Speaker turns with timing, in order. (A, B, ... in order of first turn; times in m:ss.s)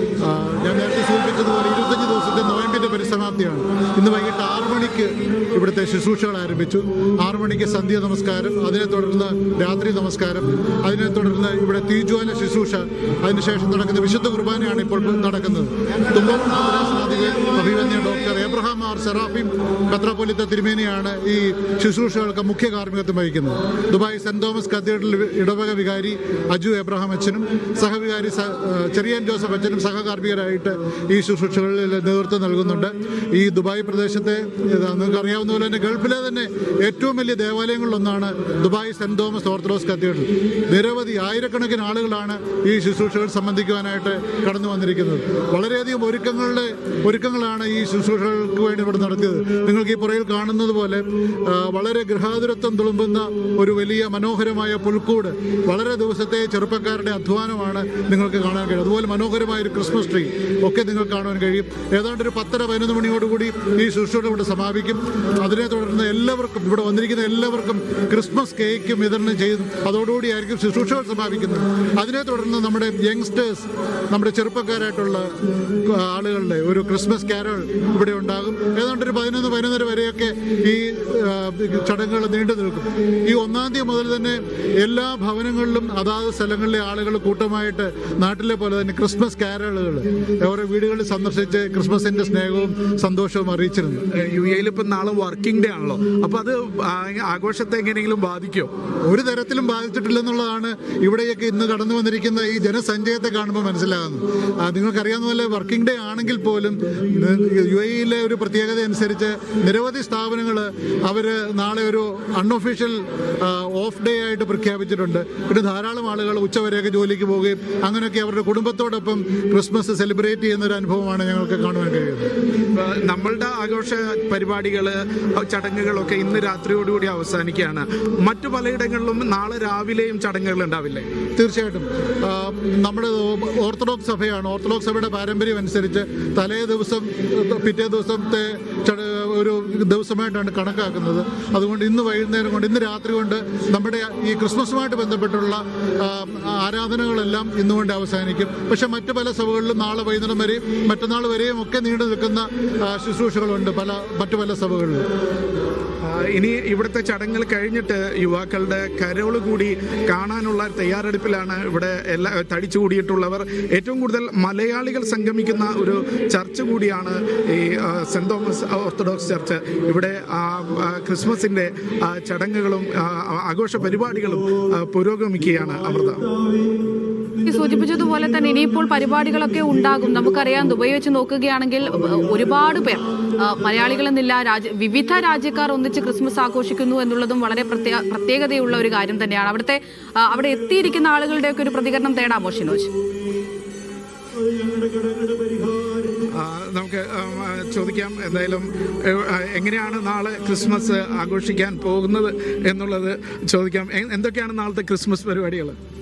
0:00.2-1:15.3 A
1:15.9-1:34.0 A
1:34.2-1:38.7 B
1:39.1-2:02.3 A
2:02.8-2:11.1 B
2:11.4-2:35.0 A
2:36.0-2:56.2 B
2:57.4-3:12.9 C
3:16.3-3:25.8 B